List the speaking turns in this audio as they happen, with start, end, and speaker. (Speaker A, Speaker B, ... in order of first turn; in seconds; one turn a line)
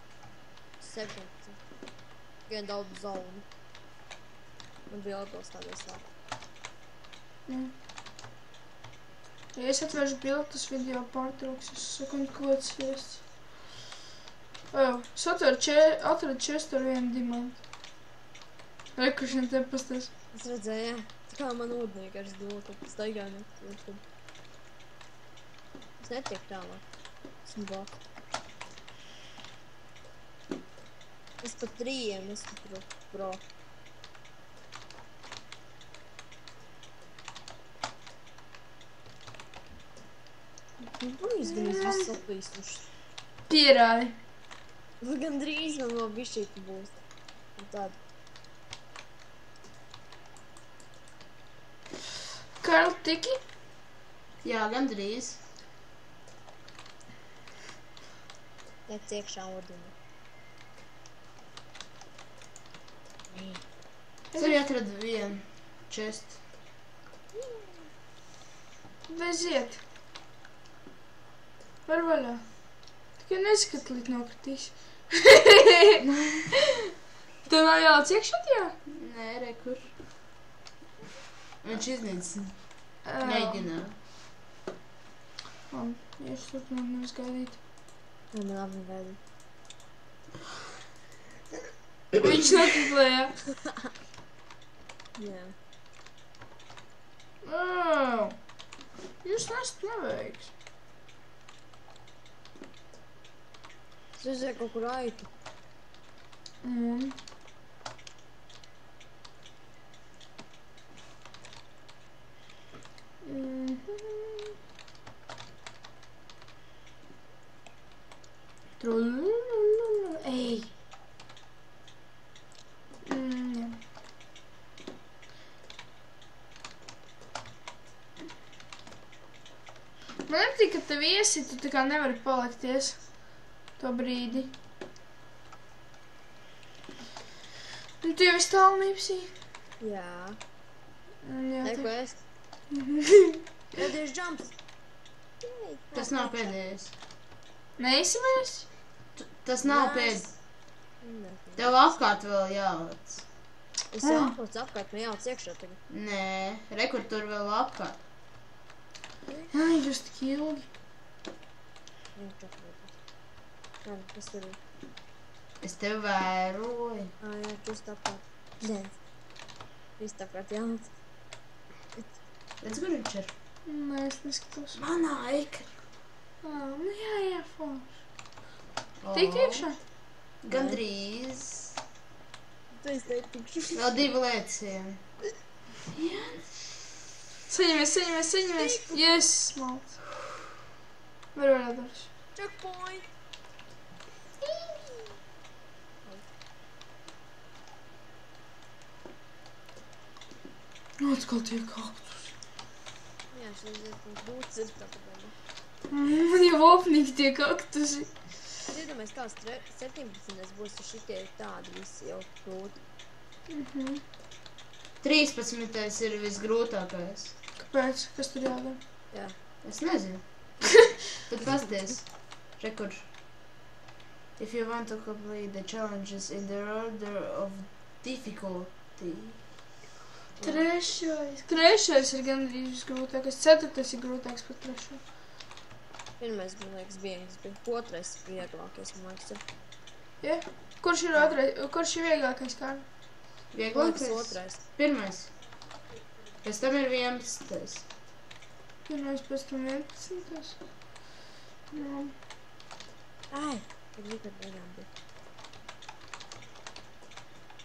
Speaker A: 0.8-1.6
Speaker A: 2.5-3.5
Speaker A: 4.9-6.0
Speaker B: 7.5-7.7
Speaker B: 9.6-13.2
Speaker B: 14.7-17.6
Speaker B: 19.0-20.1
Speaker A: 20.3-24.0
Speaker A: 26.0-26.8
Speaker A: 27.4-28.0
Speaker A: 31.4-33.4
Speaker A: 40.9-42.9
Speaker B: 41.4-42.1
Speaker B: 43.5-44.2
Speaker A: 45.0-47.0
Speaker A: 47.6-48.0
Speaker B: 52.6-53.4
Speaker C: 54.4-55.4
Speaker A: 58.9-59.9
Speaker A: 63.3-63.6
Speaker B: 64.3-64.6
Speaker C: 64.4-66.4
Speaker A: 67.4-67.7
Speaker B: 69.1-69.8
Speaker B: 71.9-72.5
Speaker B: 73.2-76.9
Speaker B: 77.5-78.8
Speaker C: 78.9-79.9
Speaker C: 81.6-82.6
Speaker B: 83.0-83.7
Speaker C: 83.2-83.9
Speaker B: 85.7-87.6
Speaker A: 88.3-89.2
Speaker B: 92.2-93.4
Speaker A: 95.2-95.5
Speaker B: 97.4-98.4
Speaker B: 99.2-100.5
Speaker A: 104.2-105.3
Speaker B: 106.6-107.2
Speaker B: 113.2-114.5
Speaker B: 118.8-120.7
Speaker B: 123.0-123.8
Speaker B: 130.3-133.1
Speaker B: 133.8-134.5
Speaker B: 138.0-139.3
Speaker A: 139.8-140.4
Speaker B: 141.2-141.9
Speaker A: 141.6-142.2
Speaker B: 142.7-143.4
Speaker A: 143.8-144.5
Speaker A: 145.4-146.6
Speaker C: 145.9-146.9
Speaker B: 147.8-148.7
Speaker C: 149.2-150.3
Speaker A: 149.6-150.3
Speaker A: 151.0-151.7
Speaker C: 151.6-153.2
Speaker A: 153.9-155.8
Speaker B: 154.0-154.3
Speaker C: 155.9-158.0
Speaker B: 159.5-160.7
Speaker A: 162.2-162.9
Speaker A: 163.8-164.6
Speaker C: 165.6-167.1
Speaker A: 167.2-168.9
Speaker A: 170.0-170.9
Speaker C: 172.6-173.3
Speaker B: 173.7-174.8
Speaker C: 174.8-175.8
Speaker B: 176.4-178.0
Speaker C: 179.0-179.7
Speaker B: 179.1-179.8
Speaker C: 180.4-181.8
Speaker A: 180.5-180.8
Speaker A: 182.8-183.9
Speaker C: 183.8-185.0
Speaker C: 185.9-186.5
Speaker B: 187.5-190.0
Speaker A: 188.6-189.0
Speaker B: 191.3-192.1
Speaker A: 192.3-193.1
Speaker B: 201.0-202.3
Speaker A: 203.3-205.3
Speaker B: 205.9-208.1
Speaker A: 208.7-212.8
Speaker B: 213.5-214.0
Speaker C: 215.0-217.3
Speaker B: 217.6-218.8
Speaker C: 219.6-220.7
Speaker C: 221.3-223.1
Speaker C: 224.4-229.4
Speaker A: 230.4-230.7
Speaker B: 230.4-235.0
Speaker A: 236.2-239.4
Speaker B: 240.2-242.9
Speaker C: 243.5-245.3
Speaker A: 243.7-244.6
Speaker C: 246.4-247.9
Speaker B: 248.9-250.6
Speaker B: 251.7-252.2
Speaker A: 253.3-254.9